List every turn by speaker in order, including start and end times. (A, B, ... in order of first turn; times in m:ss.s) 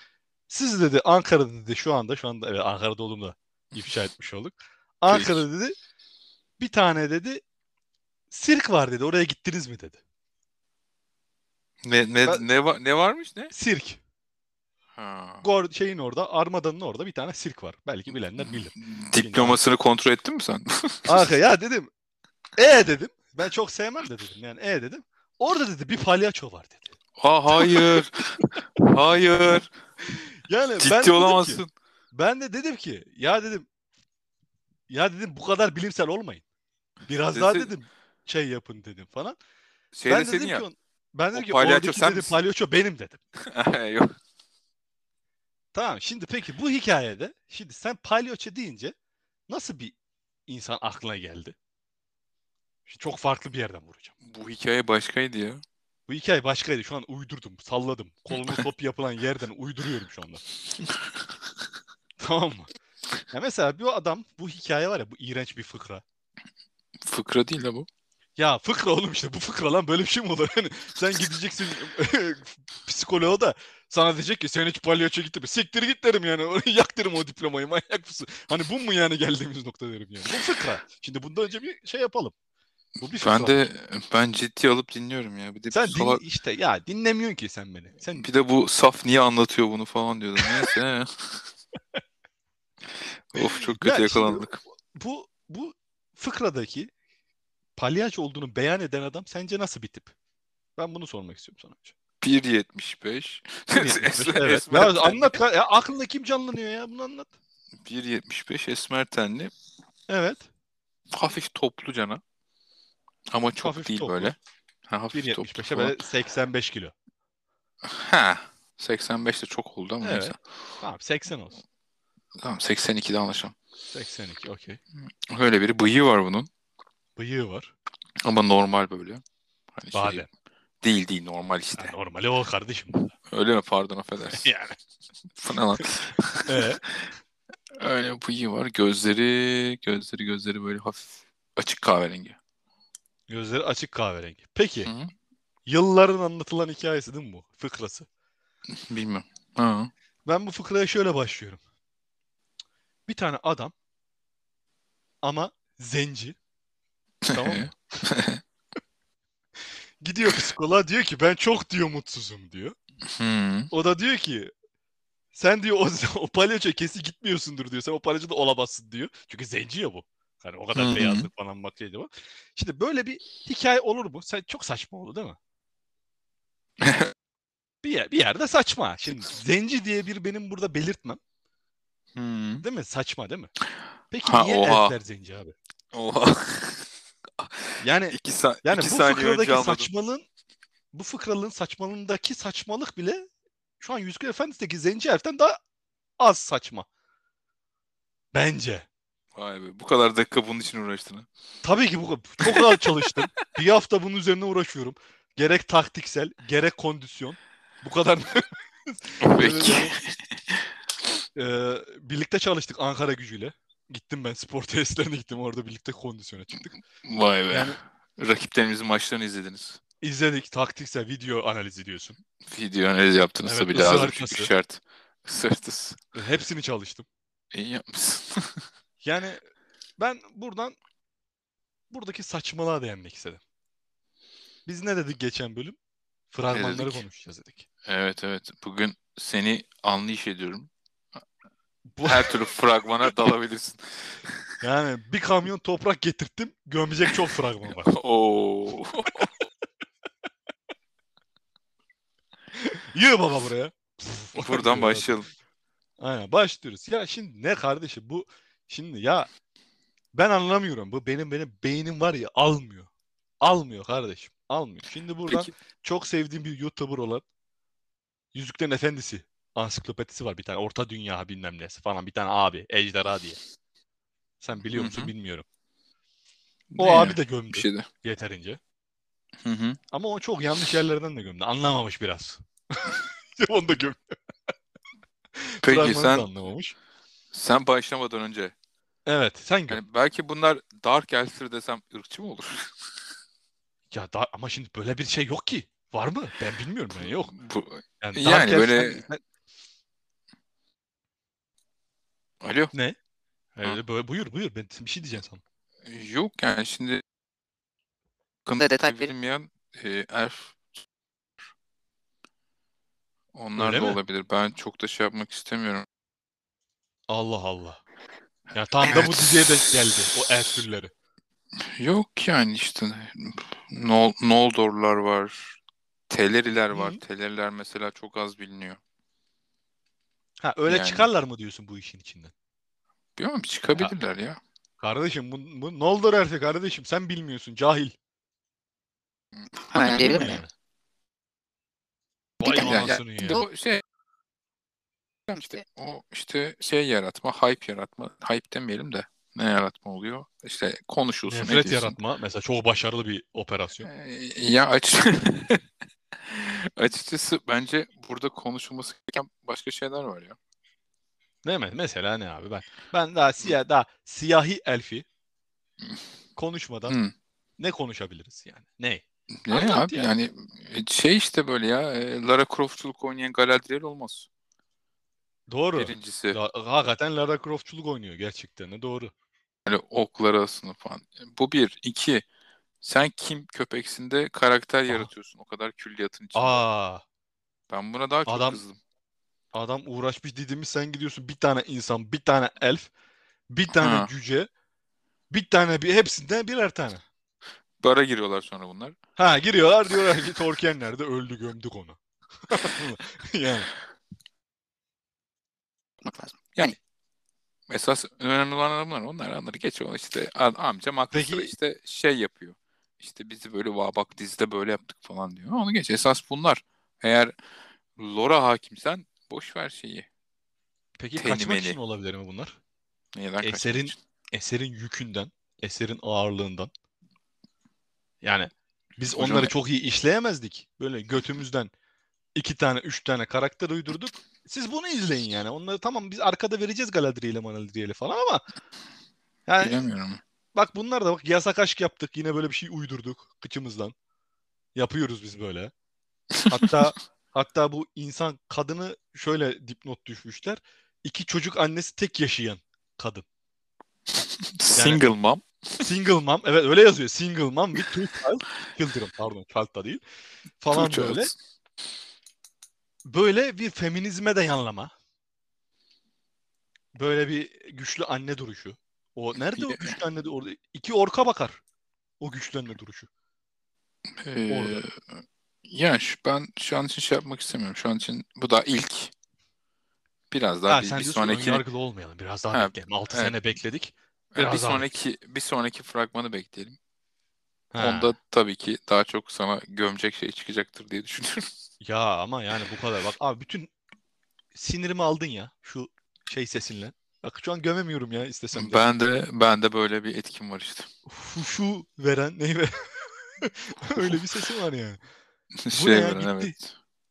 0:00.5-0:05.8 A
0:05.1-0:05.5 B
0:06.6-0:07.4 A
0:08.3-0:10.0 A
0:11.8-0:13.5 B
0:13.5-0:14.0 A
0:15.0-0:15.5 B
0:15.4-0:19.6 A
0:18.4-0:21.2 B
0:21.1-0:21.9 A
0:22.6-0:27.0 A
0:27.2-0:29.7 B
0:27.5-0:27.9 A
0:30.0-0:31.6 A
0:30.8-0:31.7 B
0:32.1-0:33.7 A
0:34.9-0:36.4 A
0:37.1-0:39.4 A
0:37.3-0:37.7 B
0:39.9-0:40.6 B
0:40.1-0:43.2 A
0:41.3-0:42.4 B
0:43.4-0:44.2 B
0:45.7-0:49.0 A
0:49.5-0:50.0 A
0:50.5-0:51.6 A
0:52.9-0:54.2 A
0:54.2-0:55.6 B
0:56.1-1:00.4 A
1:02.2-1:02.7 A
1:03.3-1:06.0 A
1:07.0-1:07.9 B
1:08.4-1:22.4 A
1:23.0-1:23.7 A
1:23.2-1:26.2 B
1:25.7-1:28.3 A
1:28.1-1:31.4 B
1:30.4-1:30.7 A
1:33.0-1:34.6 B
1:33.4-1:36.9 A
1:37.8-1:40.1 A
1:40.8-1:42.0 A
1:42.2-1:45.4 B
1:43.7-1:47.3 A
1:47.8-1:49.5 B
1:50.1-1:50.5 A
1:51.1-1:52.2 B
1:53.3-1:54.4 B
1:53.6-1:54.4 A
1:54.9-1:56.0 B
1:55.1-1:56.9 A
1:57.8-2:00.4 B
2:00.0-2:01.6 A
2:02.4-2:03.6 B
2:03.9-2:04.8 A
2:05.0-2:06.5 B
2:07.2-2:07.7 A
2:08.2-2:09.2 B
2:09.8-2:10.3 B
2:09.9-2:10.3 A
2:10.8-2:11.9 B
2:11.8-2:13.1 A
2:13.3-2:14.5 B
2:14.3-2:14.8 A
2:15.4-2:16.6 B
2:16.5-2:16.8 A
2:17.7-2:22.4 B
2:23.3-2:24.9 A
2:24.8-2:25.1 B
2:25.7-2:28.1 A
2:28.7-2:29.9 B
2:30.3-2:31.6 A
2:33.1-2:33.7 A
2:35.2-2:36.4 A
2:37.2-2:38.4 B
2:37.3-2:37.8 A
2:40.0-2:42.8 A
2:43.0-2:43.7 B
2:43.7-2:44.5 A
2:45.3-2:55.4 A
2:50.8-2:51.3 B
2:56.8-2:57.1 B
2:57.8-3:01.2 A
3:02.2-3:02.6 B
3:02.6-3:03.5 A
3:04.1-3:05.6 A
3:04.2-3:05.0 B
3:05.9-3:06.9 B
3:07.4-3:09.9 B
3:07.8-3:10.3 A
3:10.9-3:13.3 A
3:13.8-3:15.6 A
3:16.2-3:16.9 A
3:18.3-3:18.9 A
3:19.4-3:21.3 B
3:21.6-3:30.0 A
3:22.4-3:22.8 B
3:29.2-3:30.6 B
3:31.4-3:36.8 A
3:37.0-3:39.8 B
3:37.5-3:37.8 A
3:40.0-3:42.2 A
3:42.4-3:46.0 B
3:43.4-3:44.5 A
3:46.1-3:47.1 A
3:47.5-3:48.6 B
3:49.0-3:49.4 A
3:50.0-3:50.8 A
3:51.9-3:53.4 A
3:54.7-3:55.8 A
3:56.3-3:57.7 A
3:56.5-3:57.0 B
3:57.9-4:00.7 B
4:02.0-4:02.5 A
4:02.0-4:04.5 B
4:04.6-4:07.9 A
4:07.8-4:09.3 B
4:12.5-4:15.1 A
4:14.4-4:15.3 B
4:16.0-4:19.3 A
4:20.1-4:22.9 A
4:23.4-4:27.2 A
4:28.3-4:33.4 A
4:34.4-4:35.4 A
4:34.7-4:35.1 B
4:36.7-4:37.9 B
4:36.8-4:38.6 A
4:39.4-4:39.8 B
4:39.9-4:44.2 A
4:45.4-4:46.8 A
4:45.6-4:46.3 B
4:47.3-4:48.5 B
4:49.1-4:49.8 A
4:49.7-4:52.9 B
4:53.9-4:57.3 A
4:57.0-4:59.1 B
4:58.0-4:59.2 A
5:02.4-5:02.7 B
5:03.6-5:05.4 A
5:05.8-5:07.0 B
5:08.5-5:10.8 B
5:08.6-5:09.1 C
5:13.3-5:15.9 B
5:13.6-5:14.0 A
5:17.1-5:17.8 A
5:18.5-5:20.9 A
5:18.8-5:19.1 C
5:18.8-5:19.4 B
5:21.6-5:28.8 B
5:26.7-5:27.0 A
5:30.4-5:32.3 A
5:30.7-5:31.1 B
5:33.2-5:34.4 B
5:34.8-5:38.0 A
5:39.7-5:40.4 B
5:39.7-5:40.4 C
5:39.8-5:40.5 A
5:42.4-5:43.5 A
5:42.4-5:43.8 B
5:45.3-5:45.6 C
5:45.3-5:52.0 B
5:51.3-5:53.9 A
5:53.8-5:55.6 B
5:56.3-6:00.4 B
6:01.4-6:05.1 A
6:06.4-6:07.0 A
6:06.9-6:07.1 B
6:07.6-6:10.1 A
6:09.4-6:14.3 B
6:15.5-6:19.1 A
6:15.8-6:16.4 B
6:19.7-6:22.3 B
6:22.8-6:26.6 B
6:26.4-6:27.0 A
6:27.7-6:28.8 B
6:28.3-6:28.6 A
6:29.5-6:32.9 A
6:33.5-6:34.5 A
6:33.7-6:34.1 B
6:35.3-6:37.0 A
6:37.8-6:39.0 B
6:39.2-6:43.7 A
6:46.0-6:46.8 C
6:47.7-6:57.4 B
6:51.1-6:51.5 A
6:58.0-7:00.1 B
7:01.0-7:02.6 A
7:01.2-7:01.8 B
7:03.1-7:04.0 B
7:03.4-7:06.7 A
7:08.2-7:11.7 A
7:09.1-7:09.5 B
7:12.4-7:18.4 A
7:19.5-7:19.8 A
7:19.6-7:20.2 B
7:20.6-7:23.9 A
7:24.8-7:25.7 A
7:26.5-7:33.2 A
7:34.2-7:35.4 B
7:34.8-7:35.0 A
7:35.8-7:40.0 A
7:40.6-7:41.3 A
7:40.7-7:41.3 B
7:43.0-7:44.9 A
7:47.0-7:51.6 A
7:49.6-7:49.9 B
7:52.2-7:53.1 A
7:54.2-7:55.0 B
7:54.5-7:54.8 A
7:55.6-7:59.1 B
8:00.3-8:01.6 B
8:00.7-8:04.9 A
8:02.5-8:03.4 B
8:04.3-8:06.8 B
8:07.7-8:08.2 A
8:07.8-8:11.5 B
8:11.8-8:13.7 A
8:14.6-8:18.8 A
8:18.5-8:20.9 B
8:21.1-8:25.0 A
8:24.0-8:24.2 B
8:25.6-8:26.7 B
8:25.7-8:26.5 A